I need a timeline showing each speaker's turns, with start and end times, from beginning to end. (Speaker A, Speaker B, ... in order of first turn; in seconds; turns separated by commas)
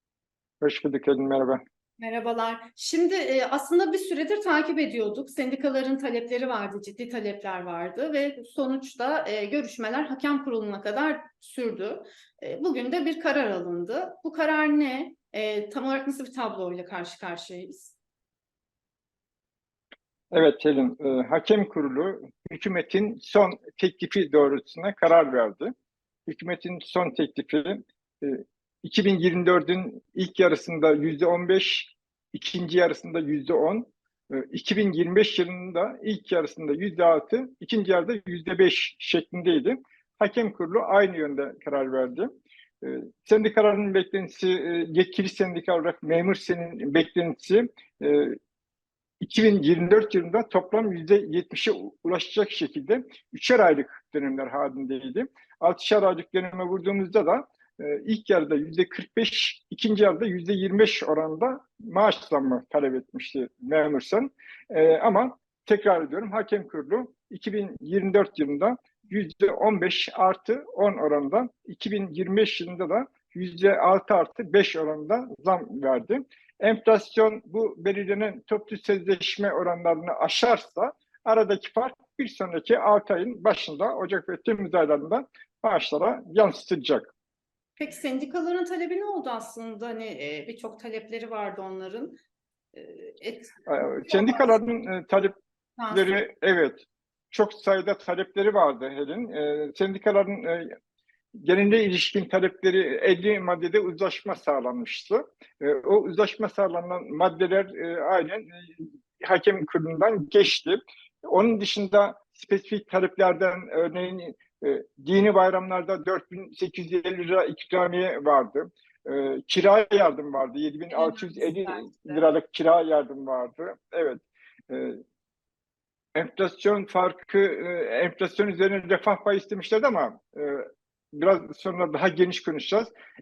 Speaker A: 0.6-1.6, Speaker B: 2.0-17.9, Speaker A: 20.3-25.7, Speaker A: 26.3-42.3, Speaker A: 42.8-48.4, Speaker A: 49.2-87.1, Speaker B: 87.8-92.2, Speaker B: 92.7-94.6, Speaker A: 93.7-95.4, Speaker B: 95.8-96.2, Speaker A: 95.9-100.7, Speaker A: 101.3-125.0, Speaker B: 120.9-122.2, Speaker A: 126.1-132.9